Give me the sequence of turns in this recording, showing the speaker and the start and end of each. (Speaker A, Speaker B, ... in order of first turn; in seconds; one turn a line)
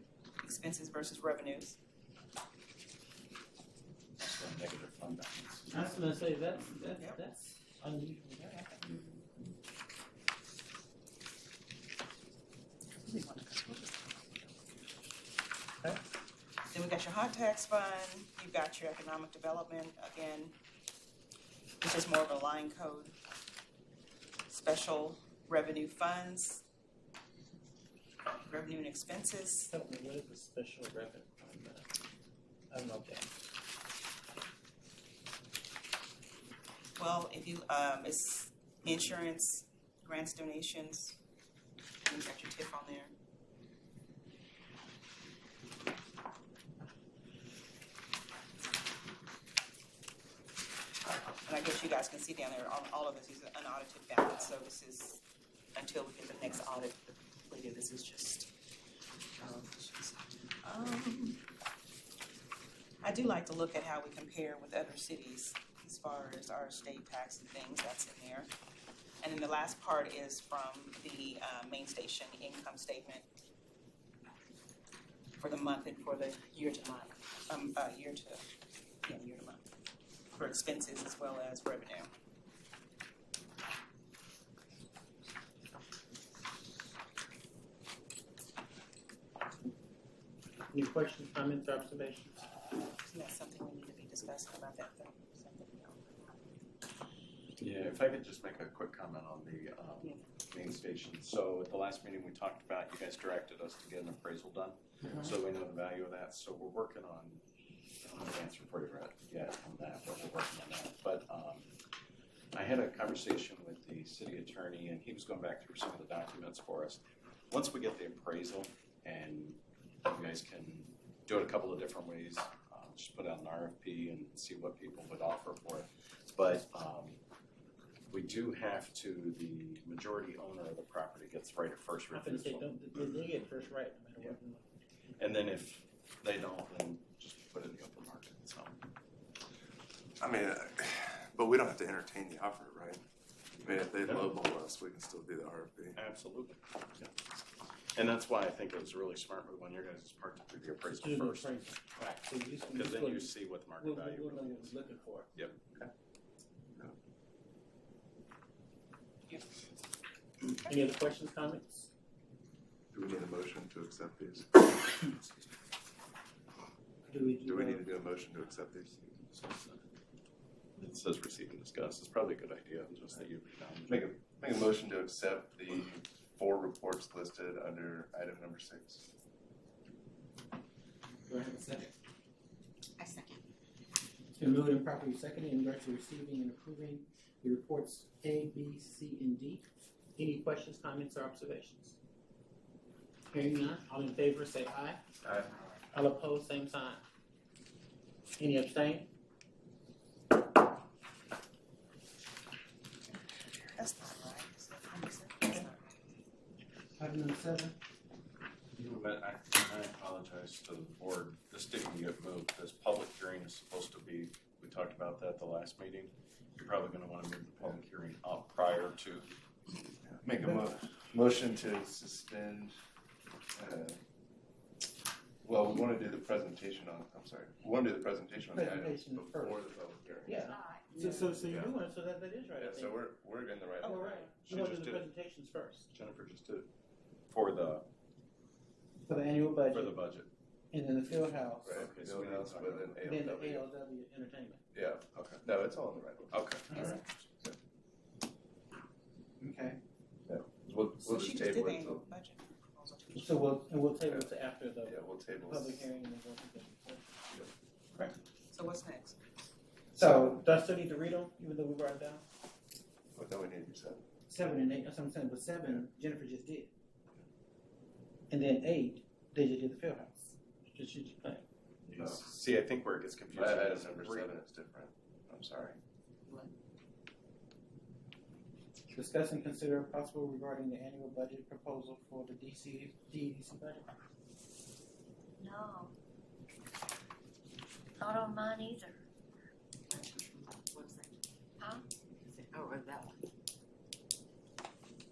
Speaker A: 0.4-1.8
Speaker B: 4.2-6.1
Speaker C: 5.7-9.0
Speaker A: 12.9-14.5
Speaker A: 16.7-20.6
Speaker A: 21.8-23.2
Speaker A: 24.5-26.6
Speaker A: 28.4-29.7
Speaker C: 29.7-31.9
Speaker C: 32.7-33.3
Speaker A: 37.0-41.2
Speaker A: 42.0-43.1
Speaker A: 51.5-55.2
Speaker A: 55.7-58.5
Speaker A: 59.4-61.4
Speaker A: 63.0-68.5
Speaker A: 69.2-73.3
Speaker A: 75.4-78.4
Speaker A: 79.0-79.7
Speaker A: 80.3-82.1
Speaker C: 90.7-92.5
Speaker A: 92.8-96.4
Speaker B: 97.6-107.4
Speaker B: 108.0-111.7
Speaker B: 112.5-127.2
Speaker B: 128.1-132.7
Speaker C: 132.1-134.7
Speaker B: 135.2-138.8
Speaker D: 140.2-143.0
Speaker D: 143.6-146.0
Speaker B: 144.0-144.4
Speaker B: 145.9-147.1
Speaker B: 148.0-151.6
Speaker C: 150.9-155.3
Speaker B: 152.7-155.5
Speaker C: 160.4-161.9
Speaker D: 162.9-164.6
Speaker C: 167.1-167.9
Speaker D: 167.4-169.2
Speaker B: 169.2-169.8
Speaker B: 170.8-174.0
Speaker D: 173.9-179.0
Speaker C: 181.3-181.9
Speaker C: 184.4-189.7
Speaker C: 190.2-192.0
Speaker C: 193.3-195.0
Speaker C: 195.9-197.0
Speaker C: 198.4-199.1
Speaker A: 203.8-205.9
Speaker C: 207.0-207.8
Speaker B: 208.8-219.3
Speaker D: 220.0-222.8
Speaker D: 223.6-224.0
Speaker D: 225.4-230.4
Speaker C: 228.5-229.7
Speaker C: 230.2-233.0
Speaker E: 230.5-230.9
Speaker A: 230.9-231.3
Speaker D: 231.4-231.7
Speaker D: 232.6-234.3
Speaker A: 233.8-234.3
Speaker C: 233.8-235.9
Speaker B: 234.5-235.1
Speaker B: 235.9-236.7
Speaker B: 237.3-237.9
Speaker C: 239.1-240.0
Speaker B: 239.7-240.3
Speaker C: 240.7-241.8
Speaker D: 241.6-243.7
Speaker B: 241.7-243.1
Speaker C: 243.0-244.6
Speaker D: 244.7-247.6
Speaker B: 246.3-246.9
Speaker C: 249.4-249.8
Speaker D: 250.3-252.1
Speaker A: 251.0-253.6
Speaker C: 253.2-257.1
Speaker D: 254.8-255.9
Speaker A: 258.5-259.2
Speaker C: 259.9-262.2
Speaker D: 263.1-264.1
Speaker C: 264.3-266.7
Speaker C: 268.3-271.4
Speaker B: 271.9-274.4
Speaker D: 271.9-272.2
Speaker D: 273.3-275.8
Speaker C: 278.9-283.8
Speaker E: 285.4-285.9
Speaker E: 288.0-289.0
Speaker E: 289.9-293.2